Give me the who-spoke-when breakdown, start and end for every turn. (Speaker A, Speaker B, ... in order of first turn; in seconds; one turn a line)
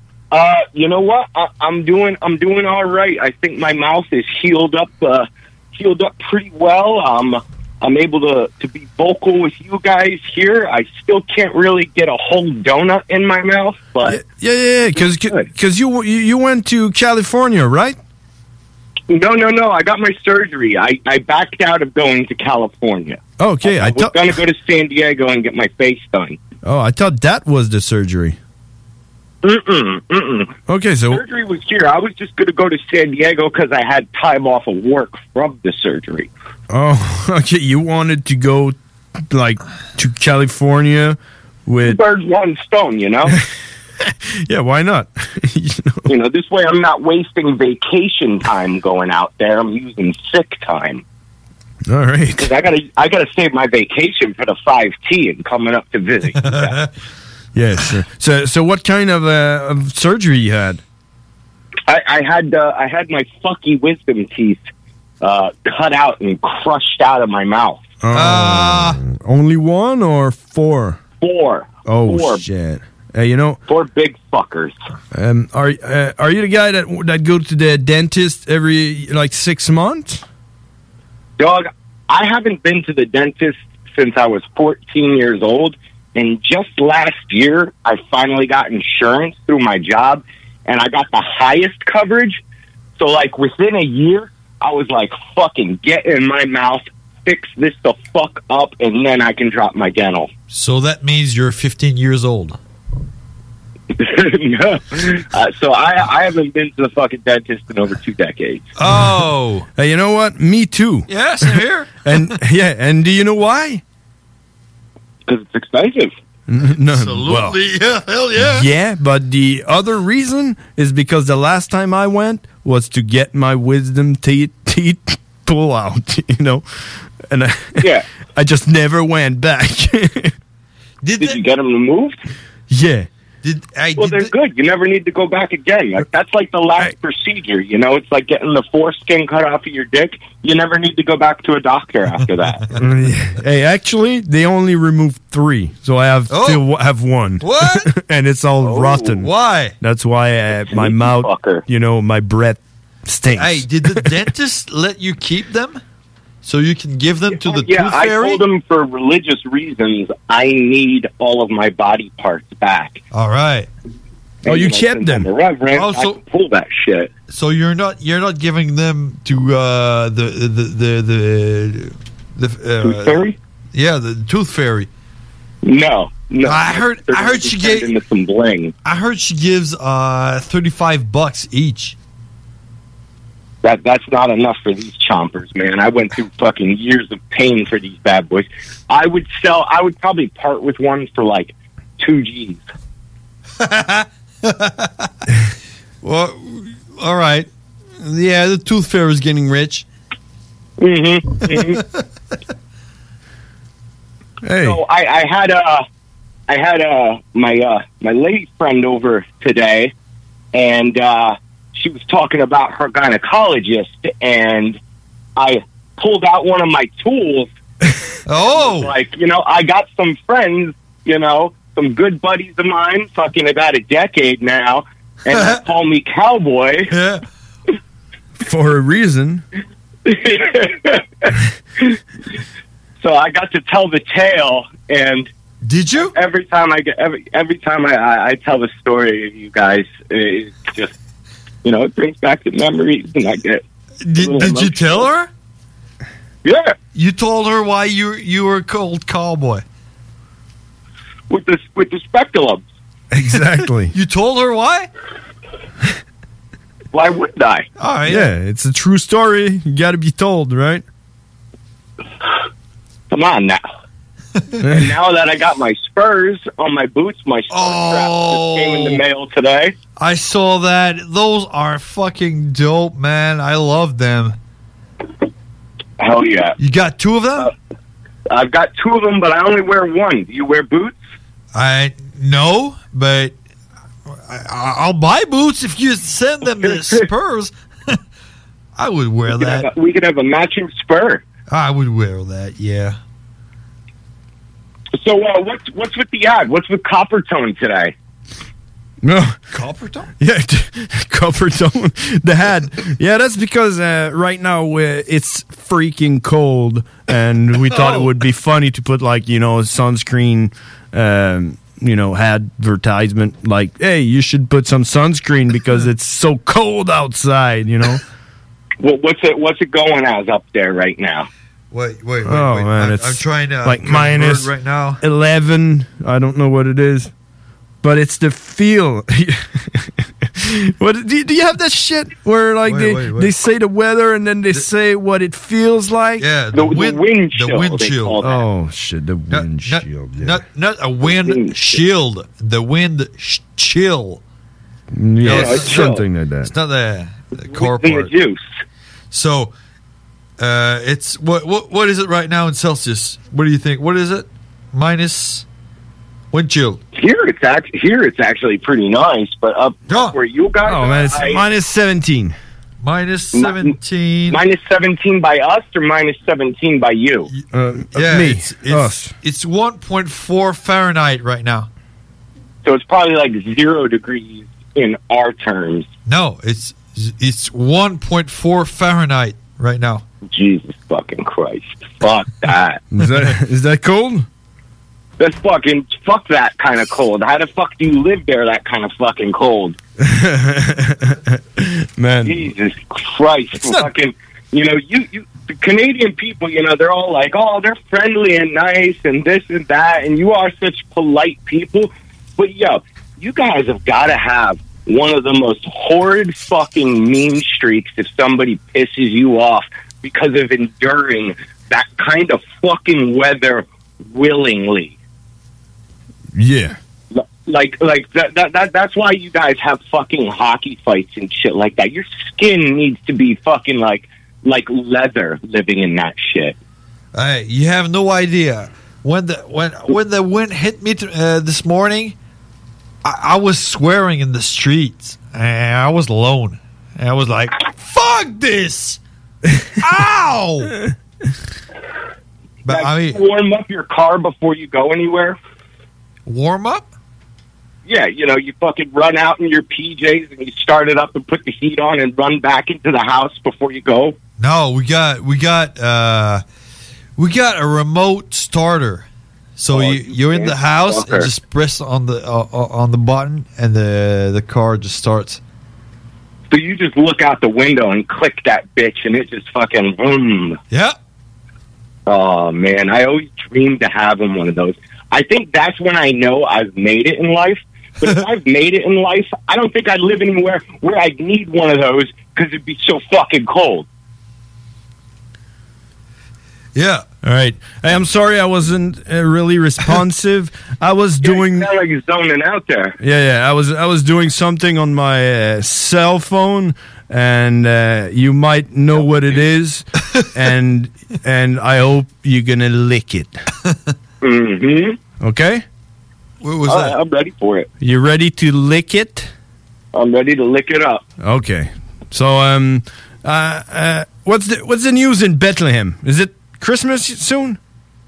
Speaker A: 0.3-14.2
Speaker B: 14.1-18.0
Speaker A: 14.9-15.5
Speaker A: 19.1-26.4
Speaker B: 23.4-24.3
Speaker B: 26.6-28.4
Speaker A: 29.4-30.5
Speaker B: 30.7-31.2
Speaker A: 31.1-36.3
Speaker B: 36.7-38.8
Speaker B: 39.3-42.0
Speaker A: 41.8-43.3
Speaker B: 44.5-46.0
Speaker A: 46.1-51.0
Speaker B: 51.9-52.5
Speaker A: 52.4-56.8
Speaker C: 56.4-56.9
Speaker B: 57.5-60.8
Speaker A: 61.9-64.6
Speaker A: 65.2-67.8
Speaker B: 68.0-71.0
Speaker C: 68.1-69.0
Speaker A: 71.2-72.4
Speaker B: 71.9-73.6
Speaker A: 73.7-74.8
Speaker B: 75.1-80.2
Speaker A: 81.4-92.4
Speaker A: 93.0-100.3
Speaker C: 100.5-102.6
Speaker A: 104.0-108.7
Speaker C: 108.8-109.7
Speaker B: 109.8-113.8
Speaker C: 111.1-112.1
Speaker A: 115.3-116.1
Speaker B: 116.5-117.6
Speaker C: 116.9-118.7
Speaker B: 118.4-126.7
Speaker B: 127.2-130.3
Speaker C: 131.0-131.4
Speaker A: 131.2-132.2
Speaker B: 132.7-133.1
Speaker C: 133.4-134.3
Speaker A: 134.0-142.6
Speaker B: 142.8-154.1
Speaker C: 146.3-146.6
Speaker C: 147.4-147.9
Speaker A: 148.6-149.2
Speaker C: 149.2-149.7
Speaker A: 150.7-151.7
Speaker C: 153.3-155.8
Speaker C: 156.4-158.4
Speaker A: 157.3-163.0
Speaker C: 163.1-163.7
Speaker A: 164.4-167.1
Speaker B: 164.4-165.3
Speaker C: 165.7-166.2
Speaker C: 167.3-173.2
Speaker A: 172.8-173.4
Speaker C: 173.7-174.9
Speaker A: 175.6-178.7
Speaker C: 176.4-177.9
Speaker C: 178.8-182.0
Speaker A: 183.6-192.6
Speaker C: 193.6-195.1
Speaker C: 196.0-197.5
Speaker C: 198.0-199.9
Speaker A: 200.8-201.8
Speaker B: 204.4-204.8
Speaker A: 204.6-205.8
Speaker A: 206.5-209.9
Speaker A: 210.5-214.8
Speaker A: 215.4-217.5
Speaker C: 218.3-218.9
Speaker A: 218.4-226.9
Speaker C: 225.3-225.6
Speaker C: 226.9-227.2
Speaker B: 228.4-229.4
Speaker A: 230.1-231.3
Speaker A: 233.0-235.3
Speaker C: 235.6-236.1
Speaker A: 236.0-240.9
Speaker A: 241.6-243.6
Speaker C: 244.0-245.3
Speaker A: 244.1-245.1
Speaker A: 246.4-246.8
Speaker C: 246.9-249.6
Speaker A: 251.3-252.6
Speaker B: 253.1-253.9
Speaker C: 253.9-254.9
Speaker A: 256.9-257.7
Speaker C: 257.8-258.3
Speaker B: 258.1-260.8
Speaker A: 263.1-263.6
Speaker B: 264.6-264.9
Speaker A: 264.7-269.7
Speaker C: 267.5-269.0
Speaker C: 270.0-274.4
Speaker A: 276.0-276.6
Speaker C: 276.6-277.5
Speaker A: 278.3-281.0
Speaker C: 281.5-283.4
Speaker C: 284.1-288.0
Speaker A: 286.6-287.0
Speaker C: 288.8-289.7
Speaker A: 289.3-291.2
Speaker C: 291.5-293.0
Speaker A: 295.0-297.9
Speaker B: 299.0-299.4
Speaker C: 299.5-300.1
Speaker B: 300.2-318.0
Speaker C: 307.7-308.1
Speaker A: 318.8-321.3
Speaker C: 321.7-325.0
Speaker B: 322.2-324.5
Speaker B: 325.0-327.1
Speaker B: 327.8-329.9
Speaker B: 330.4-336.3
Speaker C: 332.6-333.3
Speaker C: 336.2-338.2
Speaker A: 336.5-338.4
Speaker B: 338.2-340.4
Speaker C: 339.3-344.2
Speaker A: 341.0-341.8
Speaker B: 344.9-346.5
Speaker C: 345.2-348.1
Speaker A: 345.3-346.0
Speaker A: 347.5-348.4
Speaker C: 349.1-349.5
Speaker C: 350.4-355.4
Speaker C: 356.3-356.8
Speaker A: 356.9-361.4
Speaker C: 359.9-360.2
Speaker B: 360.6-362.4
Speaker C: 362.8-364.4
Speaker A: 363.3-363.8
Speaker A: 364.3-367.3
Speaker C: 367.3-371.7
Speaker B: 367.5-369.1
Speaker A: 372.6-375.9
Speaker C: 376.1-380.1
Speaker A: 380.3-382.8
Speaker B: 382.9-384.3
Speaker A: 385.2-389.8
Speaker B: 390.0-392.5
Speaker A: 392.2-414.9
Speaker B: 393.6-393.9
Speaker B: 416.4-416.8
Speaker A: 417.1-426.6
Speaker C: 427.1-432.1
Speaker C: 433.0-439.0
Speaker C: 439.8-440.7
Speaker C: 442.6-443.2
Speaker A: 442.7-445.4
Speaker C: 446.3-446.9
Speaker A: 447.9-454.2
Speaker C: 454.4-456.4
Speaker C: 457.2-459.1
Speaker C: 459.6-465.4
Speaker A: 459.7-461.3
Speaker A: 466.5-470.6
Speaker C: 470.7-471.0
Speaker A: 472.1-483.9
Speaker C: 486.8-487.1
Speaker B: 487.2-491.7
Speaker A: 491.2-493.0
Speaker B: 493.0-503.4
Speaker A: 504.2-505.0
Speaker B: 505.2-505.6
Speaker C: 506.4-507.0
Speaker A: 506.7-507.7
Speaker B: 507.8-509.3
Speaker A: 509.9-511.0
Speaker B: 511.2-517.6